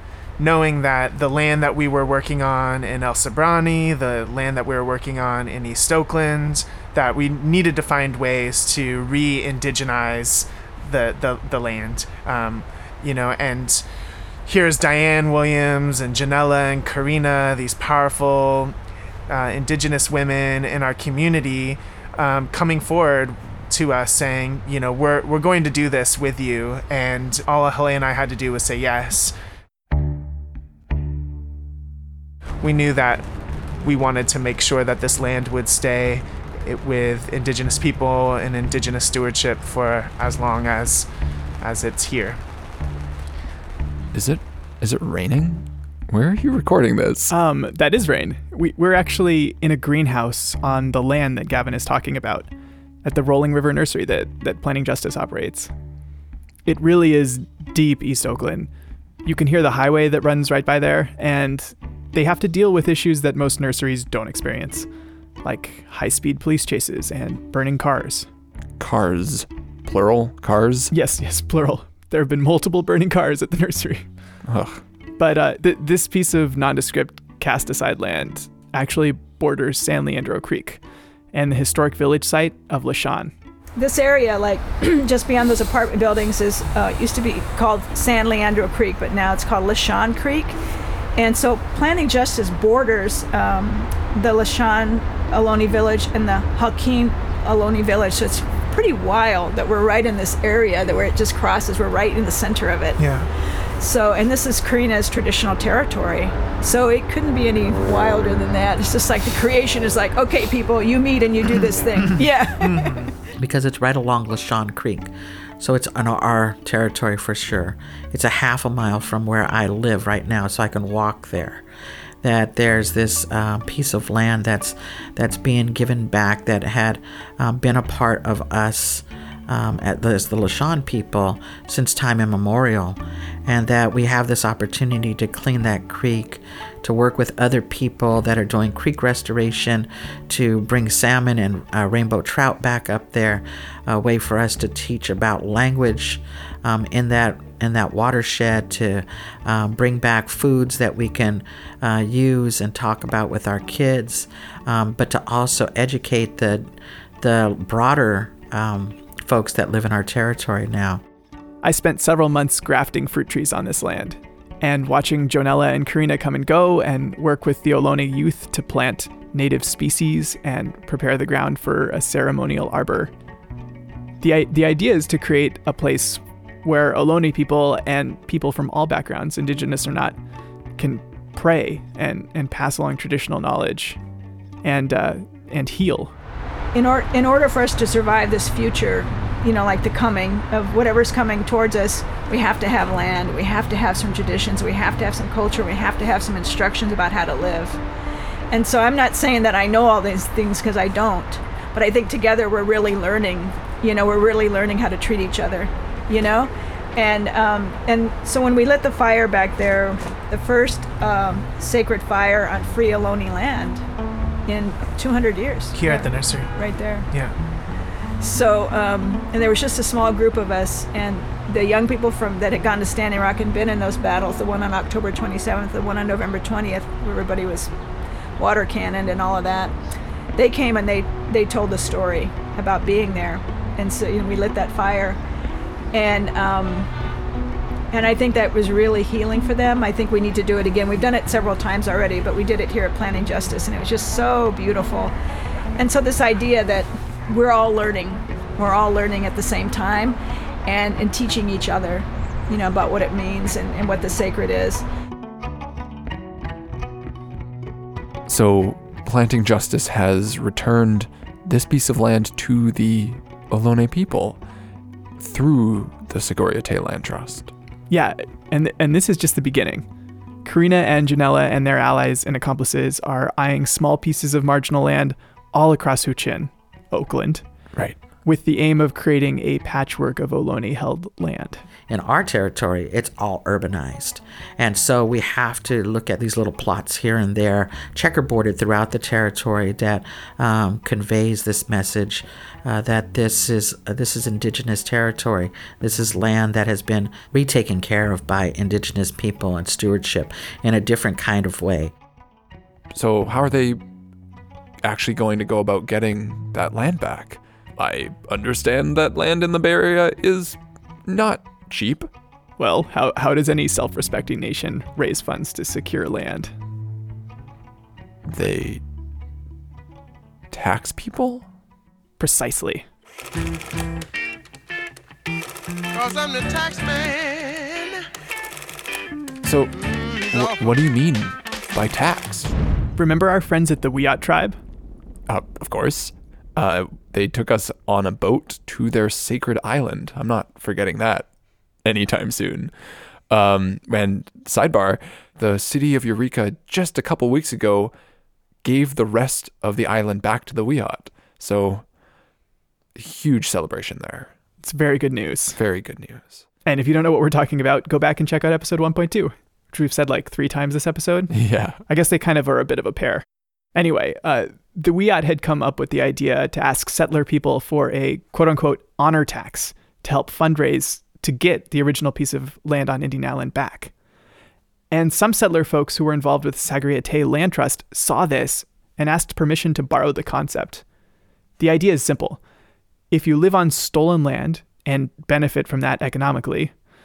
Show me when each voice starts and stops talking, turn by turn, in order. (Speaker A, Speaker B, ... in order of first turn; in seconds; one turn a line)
Speaker A: 0.4-13.8
Speaker A: 14.4-18.7
Speaker A: 19.3-29.3
Speaker A: 32.6-33.3
Speaker A: 33.8-41.1
Speaker A: 41.6-42.4
Speaker B: 44.1-47.3
Speaker C: 47.3-52.5
Speaker C: 53.0-55.7
Speaker C: 56.6-58.7
Speaker C: 59.2-64.9
Speaker C: 65.4-68.3
Speaker B: 68.8-70.9
Speaker C: 70.9-74.1
Speaker B: 74.5-74.8
Speaker C: 75.2-80.8
Speaker C: 81.3-83.3
Speaker D: 83.8-90.6
Speaker D: 91.2-103.0
Speaker A: 103.0-103.3
Speaker D: 103.8-113.1
Speaker A: 112.0-113.1
Speaker E: 113.4-121.6
Speaker E: 122.2-161.0
Speaker C: 161.6-173.1
Speaker C: 174.2-180.2
Speaker C: 180.8-184.0
Speaker C: 184.6-186.1
Speaker D: 186.7-197.8
Speaker D: 198.5-213.8
Speaker D: 214.4-217.1
Speaker A: 215.7-216.5
Speaker D: 218.2-227.7
Speaker D: 228.4-229.7
Speaker D: 230.3-235.2
Speaker D: 235.9-236.9
Speaker D: 237.9-245.1
Speaker D: 245.8-254.8
Speaker B: 258.3-264.4
Speaker B: 265.2-267.5
Speaker C: 267.9-269.9
Speaker C: 270.4-277.4
Speaker C: 278.2-281.6
Speaker E: 281.9-301.9
Speaker B: 302.9-303.8
Speaker B: 304.8-312.1
Speaker C: 312.6-316.5
Speaker B: 318.3-318.8
Speaker B: 320.5-321.4
Speaker C: 322.2-322.9
Speaker F: 325.9-327.9
Speaker B: 329.4-332.5
Speaker C: 332.9-334.6
Speaker B: 335.3-341.3
Speaker B: 341.8-342.7
Speaker B: 343.3-347.9
Speaker B: 348.6-351.8
Speaker B: 352.9-354.3
Speaker C: 354.6-355.6
Speaker B: 355.6-356.4
Speaker C: 356.6-373.9
Speaker B: 361.3-361.8
Speaker C: 374.9-380.8
Speaker C: 381.6-382.4
Speaker C: 383.1-386.7